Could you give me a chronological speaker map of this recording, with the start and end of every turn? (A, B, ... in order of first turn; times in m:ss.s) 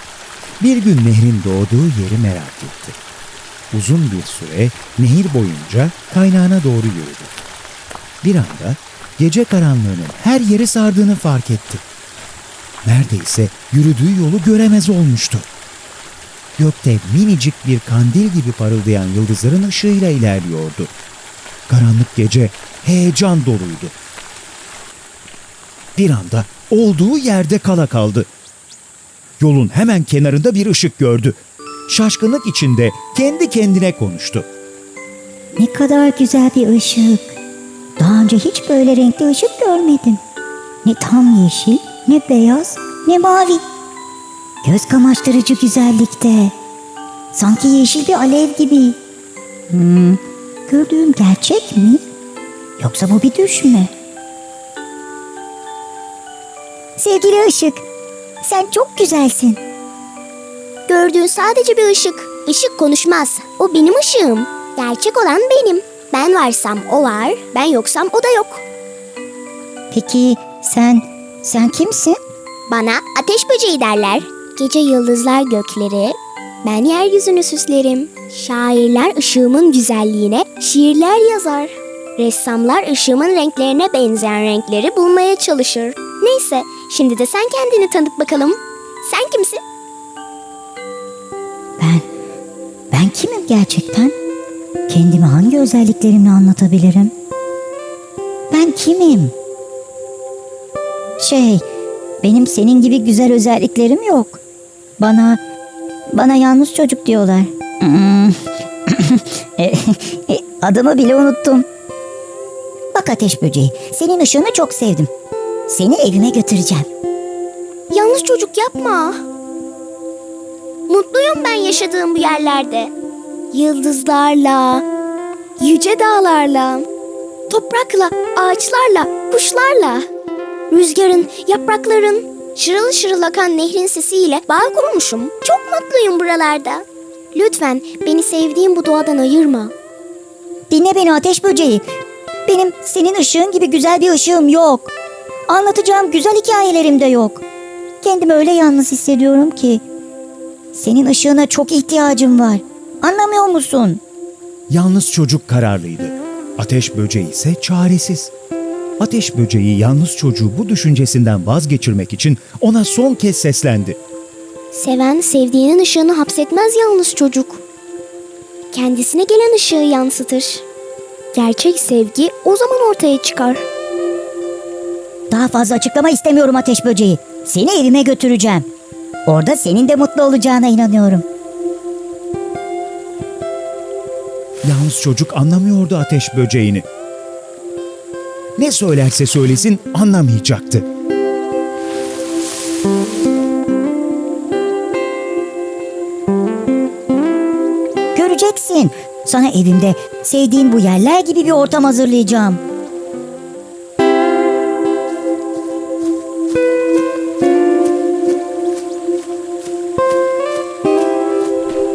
0:00.6-0:03.0 A
0:03.7-0:07.3 A
0:08.2-0:11.8 A
0:12.8-0:15.5 A
0:16.6-0:20.9 A
0:21.7-0:24.0 A
0:26.0-0:28.3 A
0:29.4-0:34.5 A
0:35.6-0:37.3 B
0:38.0-0:40.2 B
0:40.8-0:43.6 B
0:44.6-0:46.5 B
0:47.3-0:49.0 B
0:49.7-0:52.0 B
0:52.8-0:53.9 B
0:57.0-0:57.8 B
0:58.4-0:59.6 B
1:00.9-1:08.6 C
1:09.9-1:12.2 B
1:12.7-1:29.6 C
1:31.8-1:32.0 B
1:32.9-1:34.1 B
1:34.9-1:37.1 B
1:38.5-1:39.3 B
1:41.2-1:41.6 B
1:42.2-1:44.4 B
1:45.0-1:45.4 B
1:46.1-1:51.7 B
1:52.9-1:55.1 B
1:55.7-1:56.9 B
1:57.9-1:59.2 C
2:00.9-2:02.9 C
2:03.5-2:04.8 C
2:05.6-2:06.9 C
2:07.5-2:10.1 C
2:10.7-2:19.7 C
2:20.7-2:21.8 B
2:22.4-2:24.9 B
2:25.5-2:27.4 B
2:28.0-2:29.8 B
2:30.7-2:34.0 B
2:34.7-2:38.3 A
2:39.0-2:44.0 A
2:44.7-2:47.6 C
2:48.7-2:50.6 C
2:51.3-2:53.6 C
2:55.3-2:58.7 B
2:59.2-3:01.2 B
3:04.6-3:06.8 A
3:08.6-3:10.9 A
3:18.1-3:22.6 B